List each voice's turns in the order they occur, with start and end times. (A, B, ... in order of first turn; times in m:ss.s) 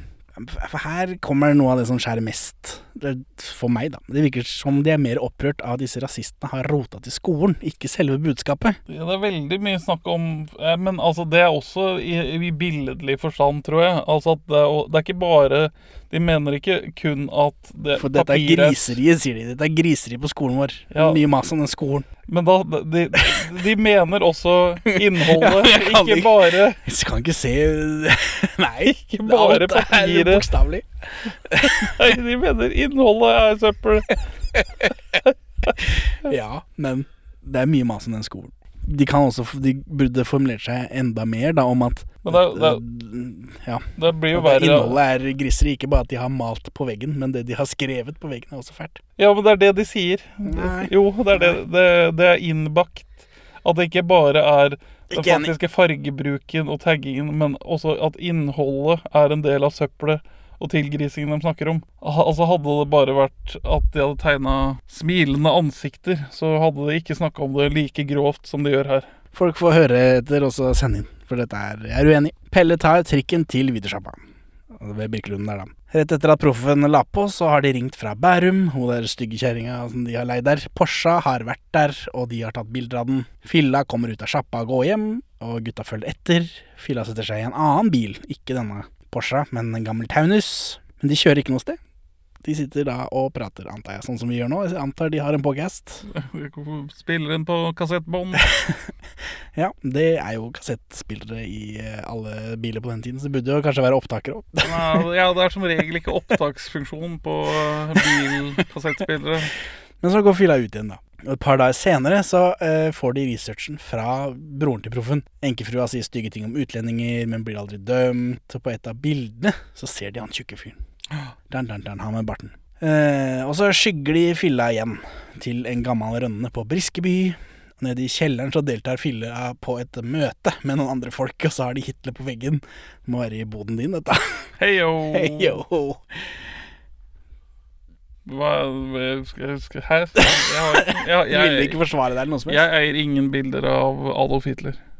0:00.4-0:08.8 A
0:08.9-0:19.0 B
0:18.0-0:22.1 A
0:20.9-0:21.2 B
0:22.3-0:26.8 B
0:24.9-0:32.0 A
0:28.9-0:30.4 B
0:31.6-0:34.2 B
0:35.8-0:49.0 A
0:42.2-0:42.8 B
0:44.0-0:45.0 B
0:49.2-1:09.1 B
0:50.4-0:51.6 A
0:55.1-0:55.5 A
1:09.3-1:14.2 A
1:14.7-1:31.8 A
1:32.4-1:36.0 A
1:36.1-1:38.4 B
1:38.4-1:38.8 A
1:39.5-1:45.0 A
1:44.6-1:49.5 B
1:50.0-2:00.8 A
2:01.5-2:14.5 A
2:14.6-2:15.6 B
2:15.1-2:16.4 A
2:18.2-2:21.8 B
2:20.2-2:22.6 A
2:22.5-2:24.8 B